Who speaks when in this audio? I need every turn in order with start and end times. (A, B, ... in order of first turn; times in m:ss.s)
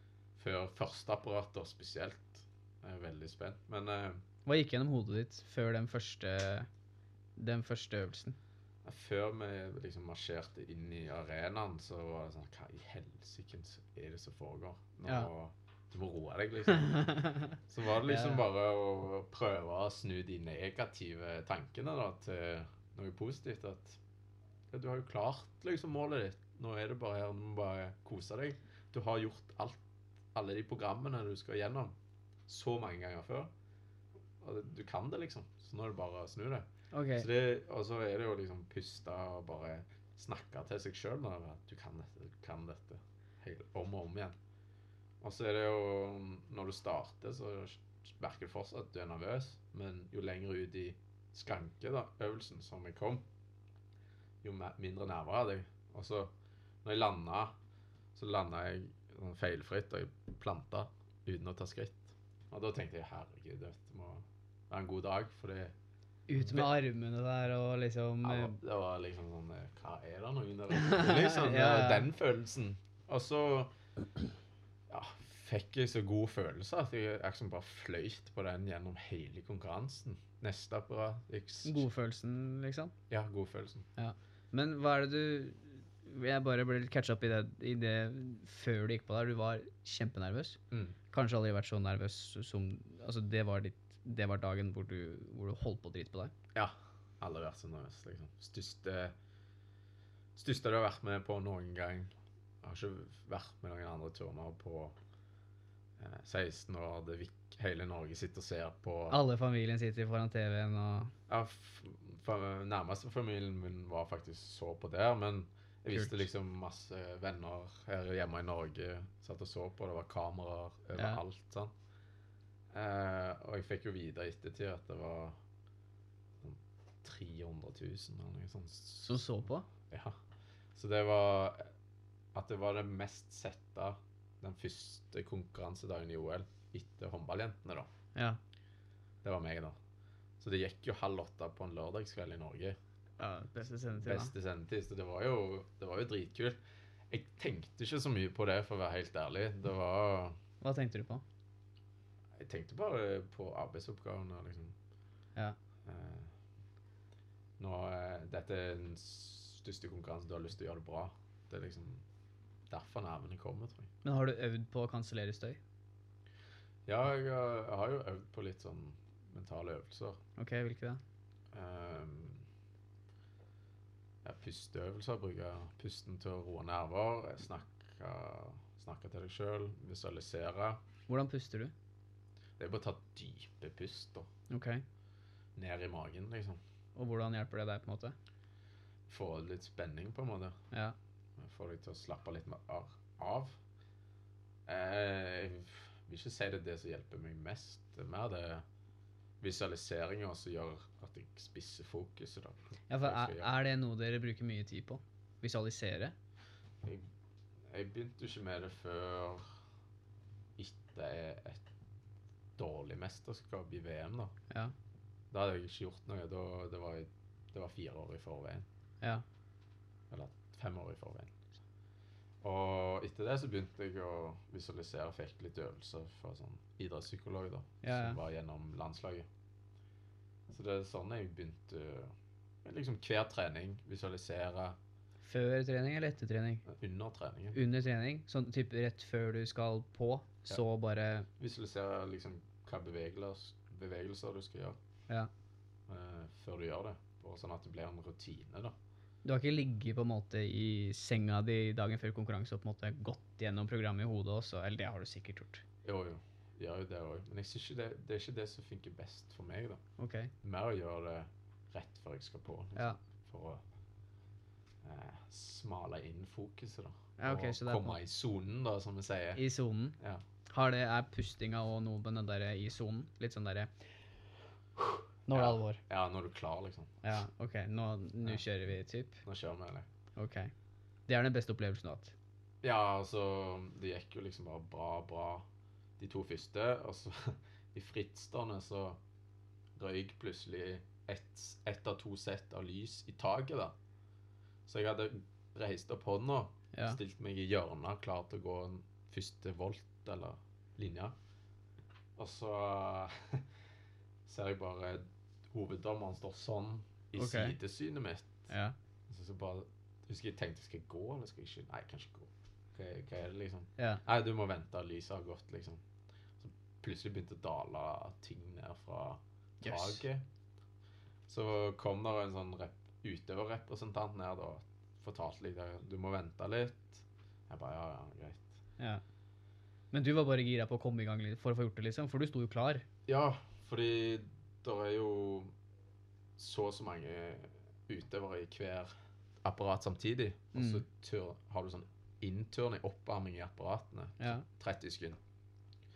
0:00.4-0:04.2 A
0:04.4-0:06.7 B
0:07.4-0:08.4 B
0:08.8-0:24.0 A
0:16.7-0:18.4 B
0:24.7-0:29.8 A
0:30.3-0:31.9 A
0:32.5-0:33.5 A
0:34.4-0:36.6 A
0:36.9-0:37.3 B
0:37.2-0:44.4 A
0:45.2-0:53.2 A
0:54.4-0:56.3 A
0:56.8-0:57.5 A
0:58.1-1:05.7 A
1:06.3-1:08.6 B
1:06.3-1:06.8 A
1:08.2-1:13.8 A
1:10.7-1:12.1 B
1:14.9-1:21.9 A
1:21.6-1:22.9 B
1:23.1-1:23.9 A
1:24.0-1:30.6 B
1:30.7-1:31.0 A
1:31.1-1:36.3 B
1:36.5-1:39.1 A
1:40.4-1:45.0 A
1:46.0-1:49.2 A
1:49.1-1:51.1 B
1:51.3-2:01.7 A
1:55.9-1:56.2 B
2:01.0-2:01.2 B
2:02.7-2:05.4 A
2:06.4-2:09.3 A
2:09.1-2:09.7 B
2:09.9-2:10.2 A
2:10.8-2:11.7 A
2:12.3-2:17.9 A
2:19.2-2:19.8 A
2:20.4-2:22.8 A
2:23.2-2:24.3 B
2:24.0-2:30.4 A
2:30.6-2:31.2 B
2:32.4-2:34.8 A
2:35.8-2:36.3 A
2:37.6-2:42.0 A
2:42.7-2:43.9 A
2:44.0-2:45.6 B
2:46.9-2:50.2 A
2:50.4-2:51.0 B
2:51.5-2:52.4 A
2:54.2-3:00.8 A
3:01.1-3:01.7 B
3:02.6-3:04.3 A
3:04.5-3:04.8 B
3:05.6-3:06.6 A
3:06.9-3:08.1 B
3:09.1-3:10.6 A
3:10.7-3:11.0 B
3:11.4-3:13.6 A
3:14.7-3:18.6 A
3:19.4-3:23.5 A
3:22.9-3:26.1 B
3:27.7-3:29.4 A
3:30.6-3:31.6 A
3:32.6-3:34.3 A
3:35.3-3:38.7 A
3:40.1-3:41.4 A
3:42.4-3:49.3 A
3:47.8-3:48.2 B
3:50.5-3:54.8 A
3:55.2-3:56.6 B
3:56.6-3:57.6 A
3:57.5-4:01.3 B
4:01.4-4:04.8 A
4:05.9-4:08.8 A
4:09.2-4:15.6 B
4:15.8-4:19.8 A
4:20.0-4:20.3 B
4:20.4-4:23.6 A
4:24.8-4:29.4 A
4:27.2-4:28.0 B
4:29.4-4:33.7 B
4:30.0-4:30.2 A
4:35.3-4:35.8 B
4:35.3-4:37.2 A
4:37.0-4:39.2 B
4:39.2-4:39.9 A
4:40.2-4:40.5 B
4:41.1-4:42.1 B
4:42.6-4:45.4 A
4:46.0-4:49.0 A
4:49.8-4:53.8 A
4:54.7-5:01.1 A
4:56.7-4:57.0 B
5:02.2-5:03.4 A
5:04.3-5:08.5 A
5:07.2-5:07.6 B
5:08.5-5:08.8 B
5:09.1-5:15.8 A
5:16.4-5:20.2 A
5:19.6-5:20.0 B
5:21.3-5:28.6 A
5:29.9-5:32.8 B
5:33.1-5:35.5 A
5:36.4-5:38.9 A
5:39.4-5:45.2 A
5:40.5-5:40.8 B
5:44.2-5:44.4 B